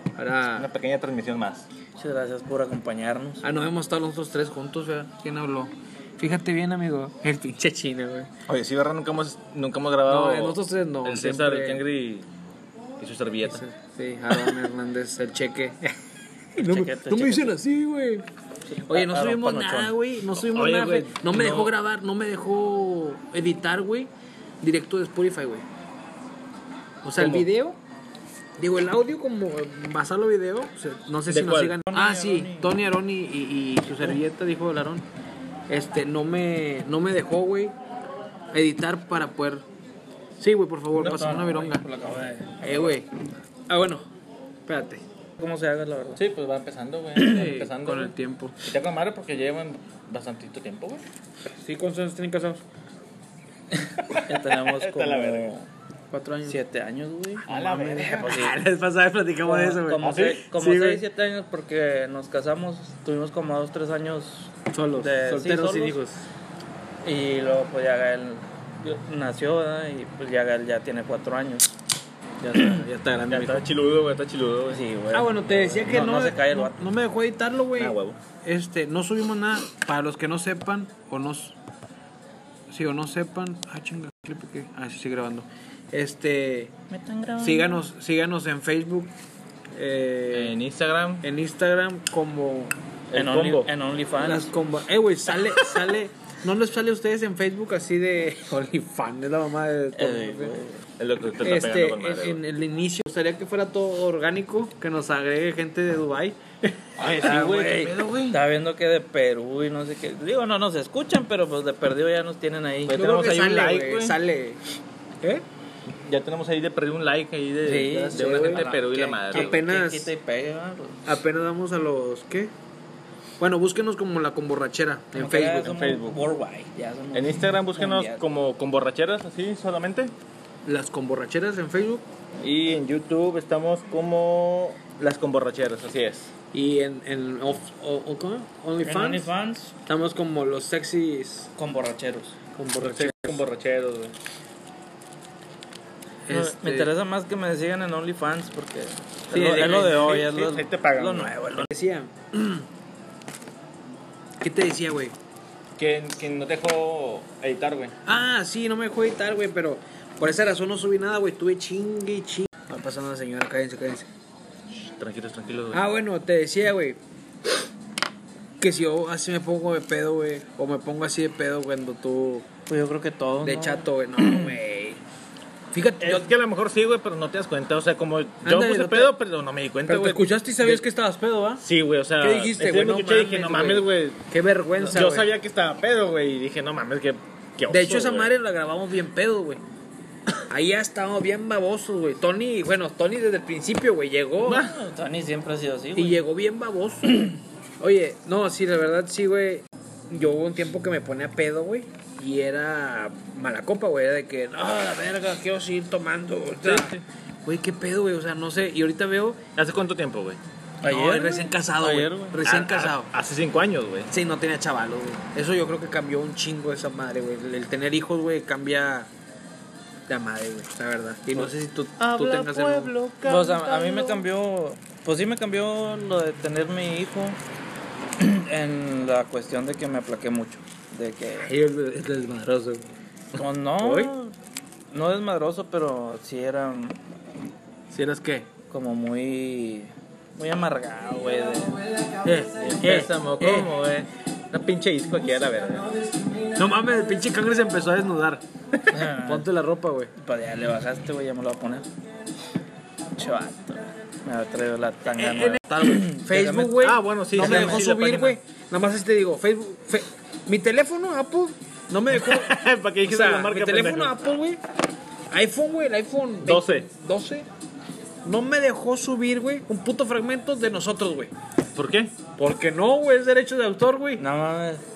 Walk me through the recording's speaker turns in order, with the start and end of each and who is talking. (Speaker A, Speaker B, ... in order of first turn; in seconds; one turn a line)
Speaker A: 0.1-0.7
Speaker B: 0.5-1.6
Speaker C: 2.0-3.4
Speaker A: 3.4-8.3
Speaker B: 8.5-12.3
Speaker A: 10.1-11.8
Speaker B: 13.0-13.6
Speaker A: 13.4-15.9
Speaker A: 16.5-18.2
Speaker C: 16.6-17.5
Speaker C: 18.7-19.9
Speaker A: 18.9-24.1
Speaker B: 20.4-21.1
Speaker C: 21.2-21.7
Speaker A: 24.6-25.6
Speaker A: 27.0-27.8
Speaker A: 28.6-35.0
Speaker B: 31.3-31.8
Speaker C: 31.9-32.7
Speaker A: 35.7-37.8
Speaker A: 38.5-39.6
Speaker A: 40.4-41.8
Speaker C: 41.0-42.9
Speaker A: 42.6-43.1
Speaker A: 43.7-44.0
Speaker A: 44.7-45.0
Speaker C: 45.4-46.2
Speaker B: 46.2-51.0
Speaker C: 47.1-47.5
Speaker A: 47.1-48.5
Speaker A: 51.6-52.6
Speaker C: 53.8-55.7
Speaker B: 54.1-55.5
Speaker A: 56.1-56.6
Speaker C: 56.5-58.5
Speaker B: 57.5-58.5
Speaker A: 57.5-61.0
Speaker C: 59.4-66.0
Speaker B: 60.0-60.4
Speaker A: 64.7-66.2
Speaker C: 67.0-71.7
Speaker A: 72.4-73.6
Speaker B: 72.5-74.8
Speaker C: 72.5-72.8
Speaker C: 74.7-76.8
Speaker A: 75.1-81.6
Speaker B: 77.8-78.2
Speaker A: 82.7-86.7
Speaker C: 86.9-87.8
Speaker A: 87.4-89.1
Speaker A: 89.7-90.5
Speaker B: 90.3-91.2
Speaker A: 91.2-92.7
Speaker B: 93.1-93.7
Speaker C: 93.1-94.5
Speaker A: 94.2-100.5
Speaker C: 100.0-100.6
Speaker B: 101.0-102.4
Speaker A: 101.4-108.0
Speaker B: 107.0-108.4
Speaker C: 108.3-113.0
Speaker B: 112.9-114.2
Speaker A: 112.9-114.6
Speaker B: 115.9-119.6
Speaker A: 117.6-120.1
Speaker C: 117.7-121.1
Speaker A: 121.0-122.5
Speaker A: 123.4-125.8
Speaker C: 125.1-128.2
Speaker B: 125.6-126.2
Speaker B: 127.1-130.1
Speaker A: 130.7-132.0
Speaker B: 132.4-136.3
Speaker A: 136.5-139.3
Speaker C: 138.8-139.7
Speaker A: 139.8-141.5
Speaker C: 141.6-142.3
Speaker A: 142.6-143.4
Speaker B: 142.8-144.1
Speaker A: 146.3-146.9
Speaker C: 146.3-151.7
Speaker A: 149.3-149.9
Speaker B: 149.3-151.3
Speaker A: 151.5-152.7
Speaker A: 154.4-155.1
Speaker B: 155.8-157.9
Speaker A: 158.1-164.1
Speaker B: 164.9-165.8
Speaker A: 165.7-167.0
Speaker A: 168.6-172.5
Speaker C: 172.7-174.6
Speaker A: 173.4-175.0
Speaker A: 175.7-176.3
Speaker B: 176.0-180.3
Speaker A: 178.4-179.2
Speaker A: 179.9-181.6
Speaker C: 180.6-180.9
Speaker B: 181.6-184.2
Speaker A: 182.2-185.3
Speaker B: 184.8-188.3
Speaker A: 187.7-189.6
Speaker A: 190.5-194.6
Speaker B: 194.4-194.7
Speaker C: 194.5-196.2
Speaker A: 195.9-197.3
Speaker C: 197.1-197.3
Speaker A: 197.8-206.9
Speaker B: 206.6-207.0
Speaker A: 207.4-209.4
Speaker B: 209.6-210.4
Speaker C: 210.8-211.5
Speaker A: 210.8-213.1
Speaker B: 211.8-214.1
Speaker A: 214.1-219.1
Speaker A: 220.1-222.9
Speaker B: 221.3-224.2
Speaker C: 223.2-227.4
Speaker C: 228.2-231.5
Speaker A: 231.4-232.8
Speaker C: 233.3-234.3
Speaker A: 233.8-234.1
Speaker C: 234.9-237.0
Speaker B: 237.9-238.4
Speaker C: 238.7-241.8
Speaker A: 242.2-243.7
Speaker B: 242.6-245.9
Speaker C: 242.8-243.6
Speaker A: 246.6-248.4
Speaker C: 248.9-249.5
Speaker A: 249.0-250.1
Speaker C: 250.2-251.9
Speaker C: 253.2-257.9
Speaker A: 255.2-264.6
Speaker B: 256.8-258.4
Speaker B: 262.1-264.2
Speaker A: 265.3-267.5
Speaker B: 266.4-266.9
Speaker A: 268.2-271.3
Speaker B: 271.7-272.1
Speaker A: 272.4-274.2
Speaker C: 274.2-274.8